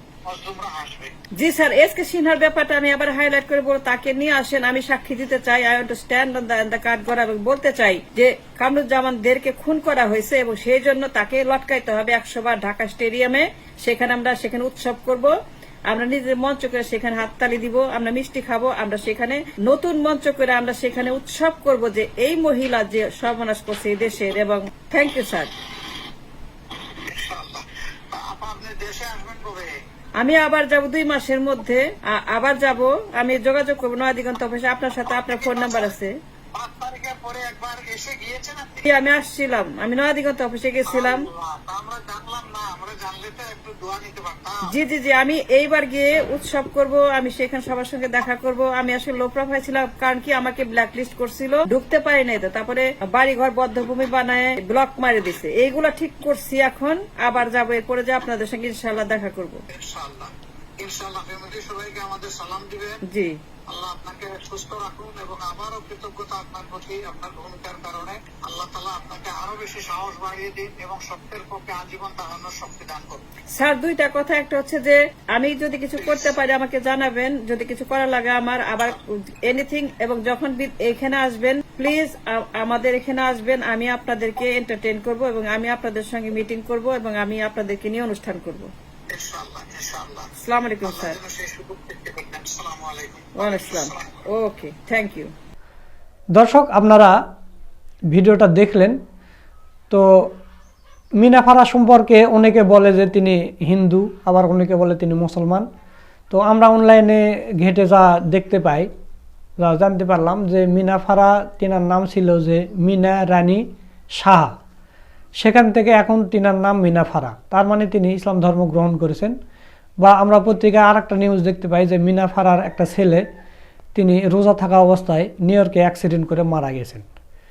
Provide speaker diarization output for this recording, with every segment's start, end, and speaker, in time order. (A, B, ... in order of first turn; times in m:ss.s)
0:00.3-0:01.1 A
0:01.4-0:15.3 B
0:15.9-0:25.5 B
0:27.0-0:29.7 A
0:30.2-0:36.1 B
0:35.0-0:35.9 A
0:36.5-0:38.9 A
0:38.8-0:41.2 B
0:40.8-0:44.6 A
0:44.7-0:59.6 B
0:59.7-1:03.0 A
1:03.1-1:03.3 B
1:03.7-1:13.2 A
1:13.6-1:28.7 B
1:16.0-1:16.4 A
1:29.1-1:30.3 A
1:30.4-1:31.2 B
1:30.8-1:34.2 A
1:33.4-1:35.3 B
1:36.4-1:37.2 C
1:38.1-1:39.0 C
1:39.9-1:40.3 C
1:41.2-1:45.6 C
1:46.3-1:48.9 C
1:49.6-1:53.6 C
1:54.2-1:54.5 C
1:55.4-1:59.3 C
2:00.0-2:03.2 C
2:03.9-2:07.0 C